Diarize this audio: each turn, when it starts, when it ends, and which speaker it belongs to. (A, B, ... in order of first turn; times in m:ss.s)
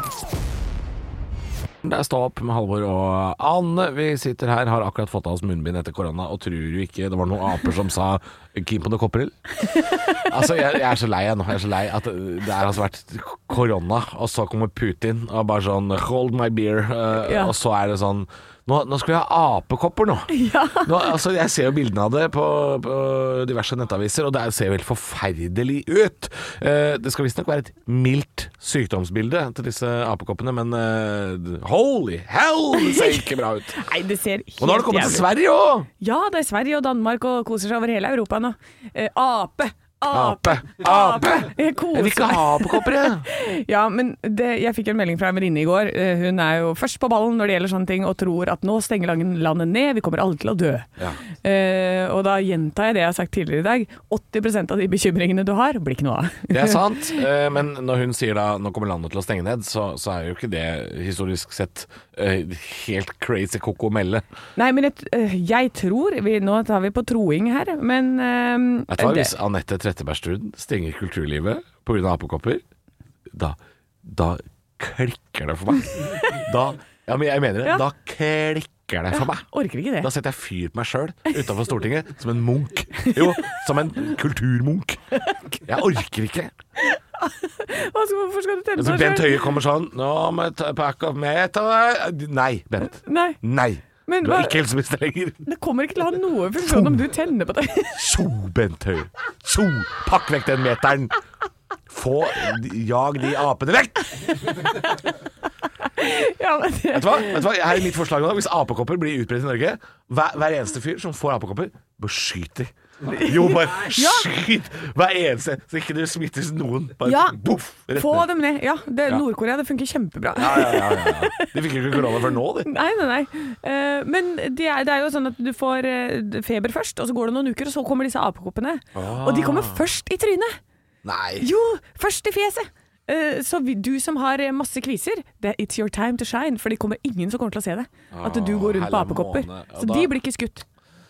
0:01.8-0:20.3 A
0:09.7-0:10.2 B
0:17.2-0:17.5 B
0:20.3-0:21.0 B
0:20.8-0:33.9 A
0:32.8-0:35.3 B
0:34.6-0:35.9 A
0:36.0-0:50.9 B
0:40.1-0:43.3 A
0:51.4-0:57.2 B
0:56.5-1:04.2 A
1:04.6-1:09.3 B
1:08.9-1:12.6 A
1:13.3-1:19.5 A
1:19.1-1:20.1 B
1:20.0-1:25.0 A
1:23.0-1:23.6 B
1:25.2-1:25.7 B
1:25.7-1:26.5 A
1:26.8-1:29.6 B
1:28.8-1:35.4 A
1:33.0-1:33.4 B
1:34.1-1:34.6 B
1:35.4-1:38.1 B
1:36.6-1:37.1 A
1:38.0-1:41.2 A
1:41.9-1:44.4 A
1:44.7-1:45.0 B
1:45.8-1:47.5 B
1:46.9-1:58.3 A
1:53.1-1:54.3 B
1:57.0-1:57.4 B
1:57.9-2:01.5 B
2:00.4-2:02.7 A
2:02.7-2:10.6 B
2:09.0-2:09.8 A
2:11.0-2:11.5 A
2:11.4-2:20.6 B
2:18.1-2:20.1 A